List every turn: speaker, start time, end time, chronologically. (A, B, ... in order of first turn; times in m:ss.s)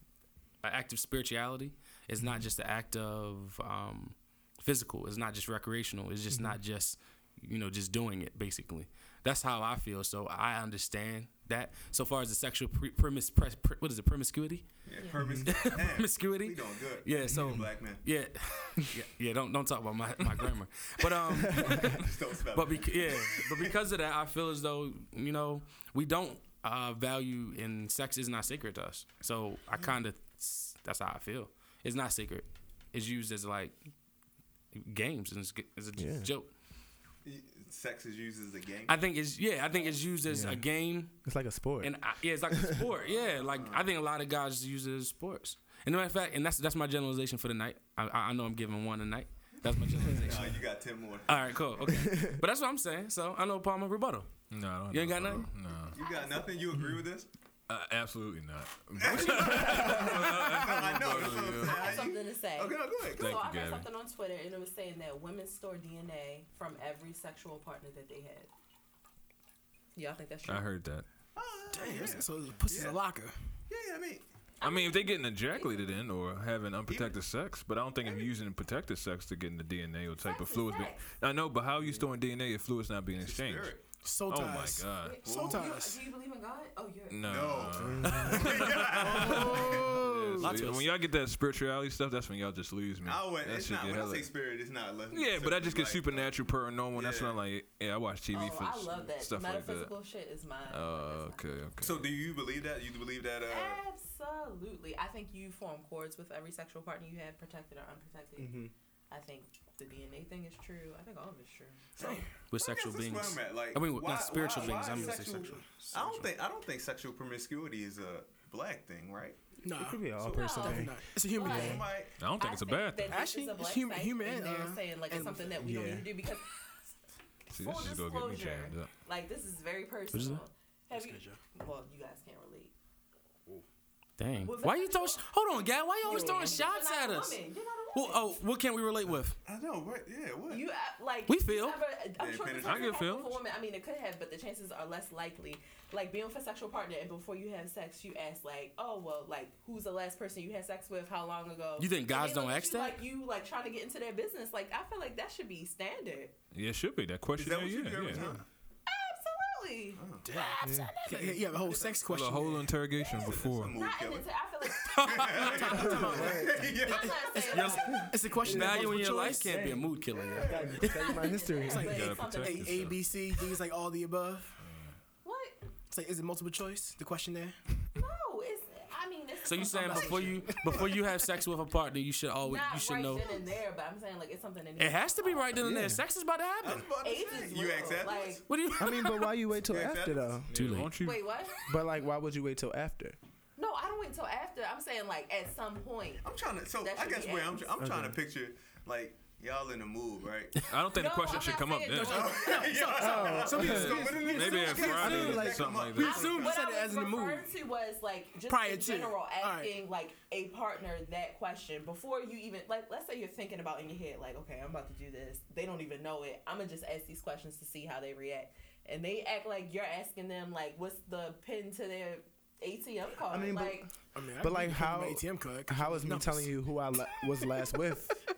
0:00.6-0:14.7 A
0:14.8-0:18.0 B
0:15.1-0:15.5 C
0:15.4-0:33.9 A
0:21.5-0:21.9 C
0:21.5-0:23.7 B
0:34.7-0:36.5 A
0:36.0-0:36.3 C
0:37.2-0:39.0 B
0:38.9-0:41.2 A
0:40.3-0:40.6 C
0:41.2-0:41.9 C
0:41.8-0:50.6 A
0:42.5-0:42.8 C
0:43.0-0:43.9 B
0:50.2-0:51.4 B
0:51.3-0:55.5 A
0:51.8-0:52.4 C
0:54.5-0:56.0 D
0:55.9-0:57.3 B
0:55.9-0:56.7 E
0:57.7-1:02.1 D
0:59.0-1:03.4 B
0:59.5-1:00.1 C
1:01.5-1:08.5 E
1:03.2-1:03.9 D
1:10.0-1:10.6 E
1:10.4-1:11.0 D
1:11.4-1:13.0 B
1:11.7-1:13.4 F
1:13.7-1:14.2 B
1:14.6-1:16.0 E
1:14.6-1:23.7 D
1:16.9-1:17.2 B
1:20.2-1:21.0 E
1:23.2-1:23.8 B
1:24.0-1:26.0 F
1:24.3-1:25.2 D
1:25.0-1:27.5 E
1:25.2-1:25.7 B
1:27.1-1:34.3 D
1:27.2-1:30.0 B
1:27.8-1:28.5 C
1:29.0-1:30.7 F
1:30.4-1:30.8 A
1:33.0-1:36.4 B
1:35.1-1:39.9 D
1:36.9-1:37.4 B
1:38.3-1:41.4 E
1:40.7-1:42.1 D
1:41.8-1:43.8 B
1:43.5-1:48.6 E
1:48.4-1:48.7 C
1:49.1-1:51.9 E
1:52.0-1:52.2 F
1:52.0-1:59.4 B
1:52.5-1:56.3 A
1:54.6-1:55.6 F
1:59.6-2:01.9 F
1:59.8-2:01.0 C
2:00.2-2:02.2 B
2:00.3-2:06.7 E
2:02.2-2:03.2 D
2:03.0-2:05.9 F
2:05.6-2:06.1 C
2:07.5-2:08.9 D
2:07.5-2:12.7 E
2:10.1-2:10.4 A
2:10.9-2:11.4 F
2:14.2-2:17.4 A
2:14.4-2:15.2 E
2:16.0-2:18.4 E
2:17.9-2:19.4 A
2:19.4-2:20.6 B
2:20.5-2:36.3 E
2:21.3-2:21.8 A
2:22.2-2:23.0 B
2:22.6-2:23.4 D
2:31.8-2:33.0 A
2:36.5-2:38.3 D
2:37.4-2:38.4 B
2:38.9-2:42.0 E
2:40.0-2:40.2 B
2:40.2-2:42.8 F
2:40.6-2:40.9 C
2:42.1-2:43.8 D
2:43.0-2:44.3 B
2:43.7-2:48.2 E
2:44.8-2:45.8 A
2:45.0-2:47.8 B
2:45.4-2:49.6 F
2:45.8-2:46.7 C
2:47.9-2:51.9 C
2:48.4-2:50.7 A
2:48.6-2:49.3 D
2:50.6-2:52.9 E
2:50.9-2:54.6 F
2:51.8-2:53.0 D
2:54.6-2:54.9 D
2:55.2-2:55.6 E
2:55.9-2:57.6 F
2:57.9-3:00.6 E
2:59.4-3:03.4 A
2:59.5-3:00.9 F
3:00.6-3:00.9 B
3:02.4-3:05.6 E
3:04.8-3:06.9 A
3:05.6-3:06.0 C
3:06.6-3:08.4 B
3:07.0-3:08.4 E
3:08.5-3:09.4 A
3:08.7-3:10.5 C
3:09.6-3:10.6 B
3:10.5-3:11.3 D
3:10.5-3:10.9 A
3:11.0-3:11.6 E
3:11.7-3:13.2 C
3:13.6-3:17.8 E
3:16.2-3:20.6 B
3:17.8-3:18.2 C
3:20.6-3:22.3 D
3:20.9-3:22.8 E
3:22.0-3:26.6 B
3:22.3-3:27.5 F
3:22.9-3:25.8 C
3:23.6-3:26.3 D
3:25.9-3:43.9 E
3:28.5-3:29.7 F
3:43.3-3:43.9 C
3:44.1-3:46.5 F
3:44.4-3:48.2 C